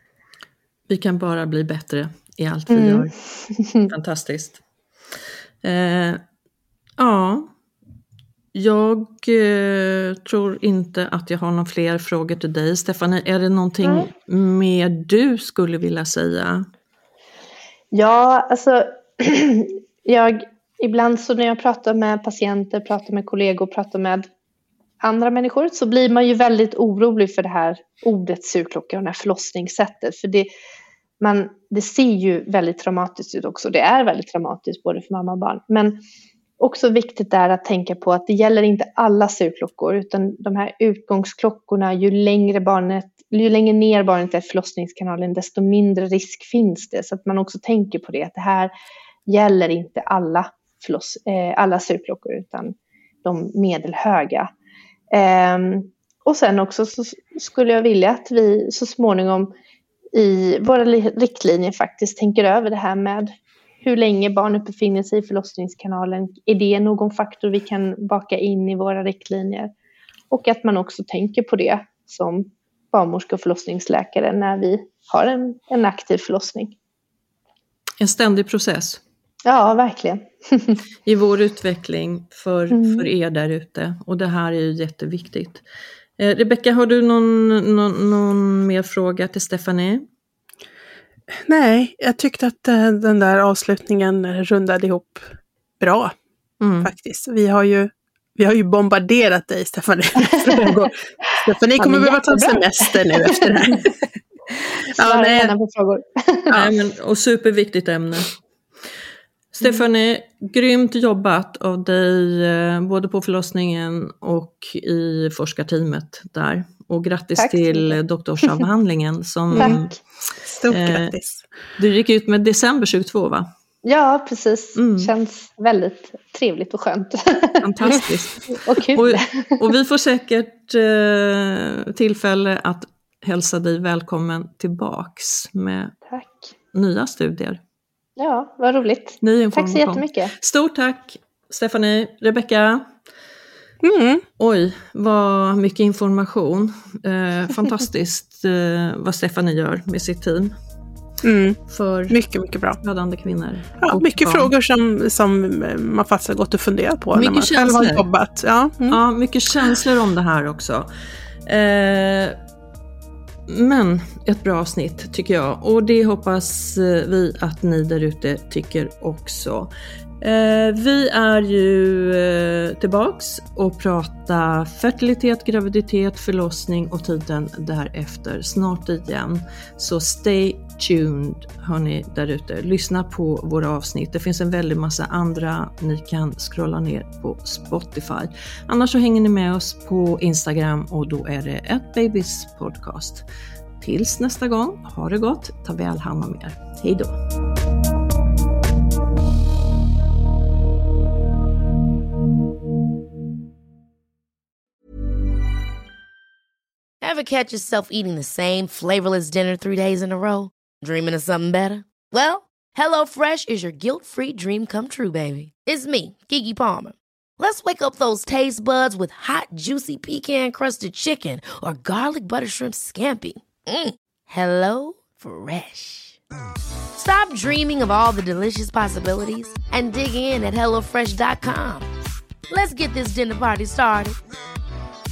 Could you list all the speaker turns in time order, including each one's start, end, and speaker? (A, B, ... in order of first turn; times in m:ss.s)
0:00.9-0:03.1 A
0:02.7-0:03.9 B
0:03.8-0:04.6 A
0:05.6-0:06.2 A
0:07.0-0:07.5 A
0:08.5-0:16.7 A
0:13.8-0:14.1 B
0:17.9-0:24.3 B
0:25.0-0:30.5 B
0:31.2-0:36.0 B
0:36.6-0:48.7 B
0:49.3-0:54.5 B
0:55.1-0:59.5 B
1:00.1-1:03.3 B
1:03.8-1:09.7 B
1:10.3-1:16.8 B
1:18.0-1:19.0 A
1:19.4-1:20.8 B
1:21.1-1:25.6 A
1:22.7-1:23.1 B
1:26.2-1:30.0 A
1:31.3-1:36.1 C
1:36.6-1:36.9 A
1:36.8-1:44.0 C
1:41.8-1:43.5 B
1:45.0-1:45.5 C
1:45.0-1:46.6 B
1:46.5-1:48.4 A
1:49.5-2:00.0 A
1:57.4-1:58.6 B
1:59.5-1:59.8 C
1:59.6-1:59.9 B
2:00.4-2:01.5 C
2:00.7-2:01.1 A
2:01.8-2:03.5 A
2:03.8-2:07.6 B
2:04.8-2:05.1 A
2:07.6-2:16.0 A
2:08.5-2:09.6 B
2:16.1-2:16.5 B
2:16.7-2:17.6 A
2:18.2-2:20.3 B
2:19.2-2:22.9 A
2:23.8-2:24.2 C
2:24.4-2:30.6 A
2:31.2-2:32.8 C
2:31.7-2:32.2 A
2:32.8-2:34.5 A
2:33.8-2:39.0 C
2:37.2-2:38.0 A
2:38.9-2:40.9 A
2:41.5-2:42.4 A
2:43.5-3:13.2 A
3:13.8-3:17.2 A
3:27.0-3:46.2 D
3:47.0-3:51.9 D
3:52.5-3:54.2 D